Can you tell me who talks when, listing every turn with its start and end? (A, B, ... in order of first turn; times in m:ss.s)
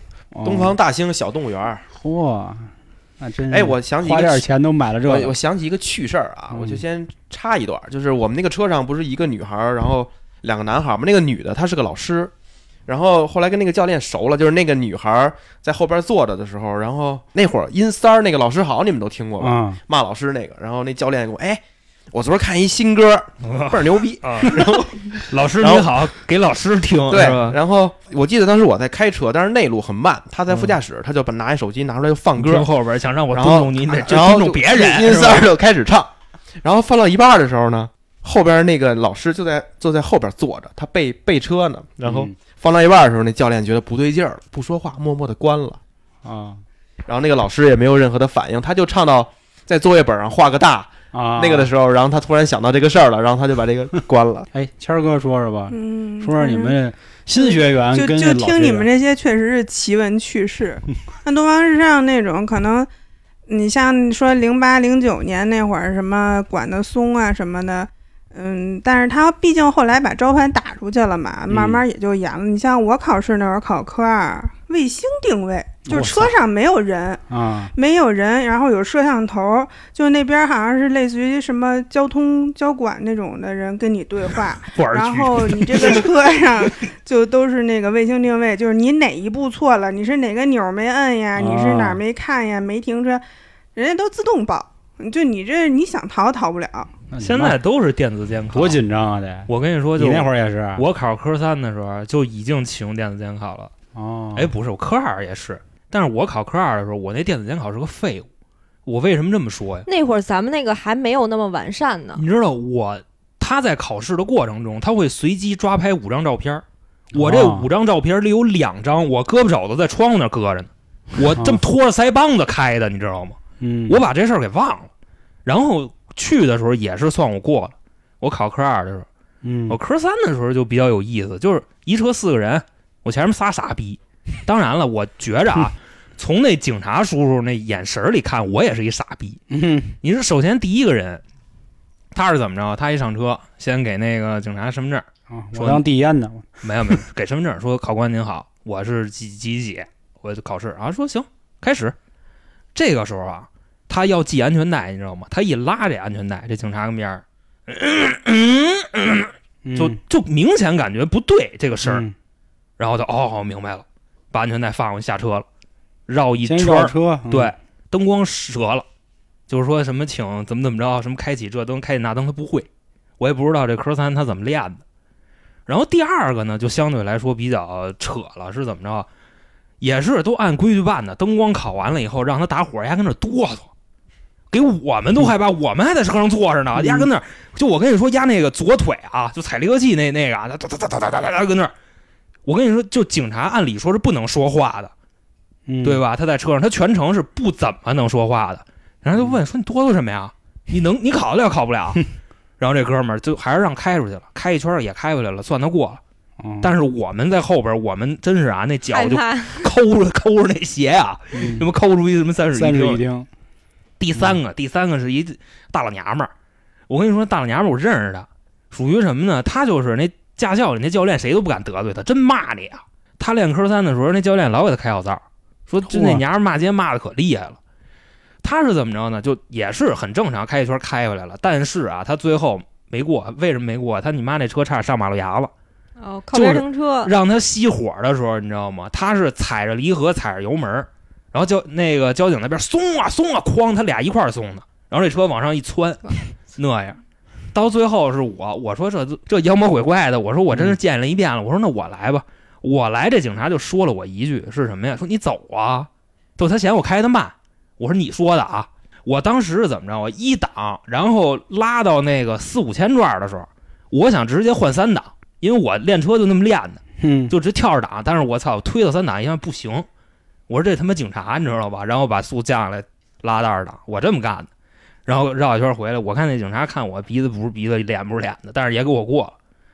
0:00.3-0:00.8 A
0:00.4-0:01.8 B
0:01.9-0:05.4 A
0:03.5-0:04.4 B
0:05.1-0:12.3 B
0:06.5-0:06.8 A
0:12.9-0:21.6 B
0:19.4-0:19.8 A
0:22.1-0:25.9 B
0:23.4-0:27.6 C
0:27.1-0:32.7 B
0:30.5-0:30.8 C
0:32.4-0:35.5 C
0:33.3-0:36.1 B
0:36.6-0:45.8 B
0:42.0-0:42.4 A
0:46.2-0:46.6 A
0:47.1-0:54.5 B
0:51.1-0:51.7 A
0:54.5-0:58.9 A
0:55.7-0:56.8 D
0:57.4-1:02.9 D
1:03.5-1:33.2 D
1:11.5-1:11.8 A
1:15.9-1:16.3 A
1:17.3-1:17.7 A
1:24.8-1:26.1 C
1:31.4-1:32.0 A
1:33.8-1:37.0 D
1:37.1-1:37.6 A
1:37.2-1:38.8 C
1:38.5-1:40.8 A
1:39.5-1:43.7 C
1:44.0-1:44.5 A
1:44.4-1:48.3 C
1:48.9-1:49.9 C
1:49.9-1:52.2 E
1:52.2-2:04.9 C
1:57.1-1:57.7 A
2:01.3-2:01.6 A
2:03.6-2:04.0 A
2:05.4-2:09.1 C
2:09.4-2:09.8 A
2:09.7-2:19.4 C
2:19.5-2:20.0 A
2:20.0-2:21.2 C
2:22.1-2:25.8 C
2:25.3-2:27.0 A
2:26.6-2:32.0 C
2:32.8-2:42.0 C
2:39.6-2:40.0 A
2:41.8-2:42.2 A
2:42.8-2:45.5 C
2:46.1-2:48.8 C
2:46.4-2:47.5 A
2:49.5-2:52.7 C
2:53.2-2:54.8 C
2:55.7-2:59.1 C
2:59.8-3:03.7 C
3:04.5-3:11.7 C
3:06.8-3:07.1 A
3:12.4-3:14.9 C
3:15.7-3:16.0 A
3:15.8-3:22.1 C
3:22.6-3:26.0 C
3:26.4-3:26.7 A
3:26.6-3:33.0 C
3:28.9-3:29.7 E
3:31.3-3:31.7 A
3:32.5-3:33.3 A
3:34.0-3:36.3 C
3:36.9-3:47.6 C
3:45.9-3:46.2 A
3:48.4-3:55.5 C
3:56.0-3:57.1 E
3:56.3-4:07.0 C
4:07.5-4:29.9 C
4:10.5-4:10.8 A
4:27.0-4:27.4 A
4:30.5-4:34.5 C
4:35.1-4:39.4 C